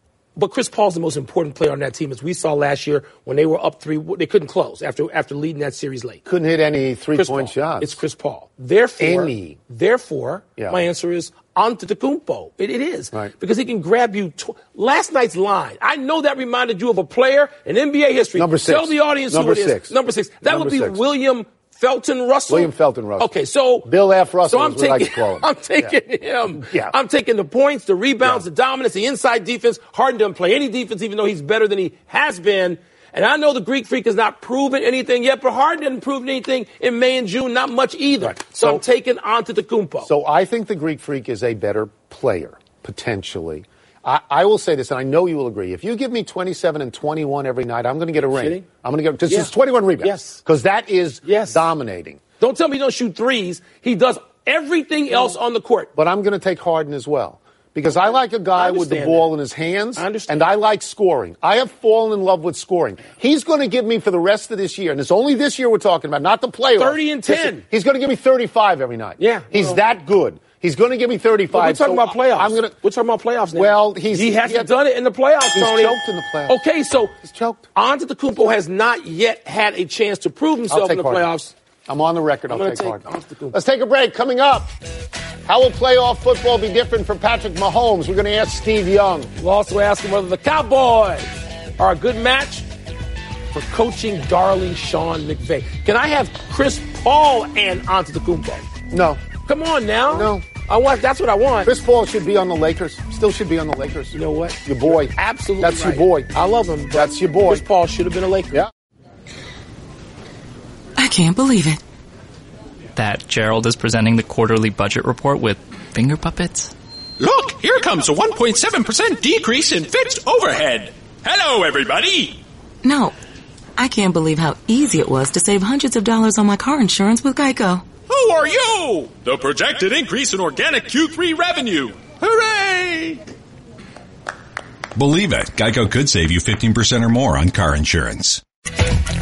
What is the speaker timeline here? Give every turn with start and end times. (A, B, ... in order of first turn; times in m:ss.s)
0:00.4-0:06.2 A
0:06.3-0:08.0 B
0:07.2-0:23.9 A
0:09.0-0:09.6 B
0:18.4-0:21.0 B
0:22.5-0:25.9 B
0:24.5-0:40.1 A
0:26.5-0:27.0 B
0:40.0-0:52.2 B
0:48.3-0:48.6 A
0:50.0-0:50.4 A
0:51.2-0:51.6 A
0:52.4-0:55.9 A
0:56.0-1:12.7 B
0:58.6-0:59.3 A
1:00.0-1:00.4 A
1:06.8-1:07.6 A
1:09.2-1:09.8 A
1:11.5-1:16.0 A
1:13.6-1:14.7 B
1:15.5-1:16.6 B
1:16.5-1:17.2 A
1:17.2-1:17.6 B
1:17.8-1:21.5 A
1:20.7-1:21.3 B
1:21.9-1:24.7 B
1:22.5-1:23.6 A
1:25.5-1:29.3 B
1:29.4-1:32.7 A
1:33.5-1:38.7 A
1:38.9-1:39.2 B
1:39.5-1:41.7 A
1:40.1-1:40.4 B
1:41.6-1:46.3 B
1:44.1-1:48.6 A
1:46.9-1:47.6 B
1:51.0-1:51.8 C
1:53.0-1:56.7 D
1:57.2-2:02.4 E
2:02.8-2:03.2 C
2:03.8-2:07.8 C
2:08.1-2:13.2 E
2:15.0-2:18.4 F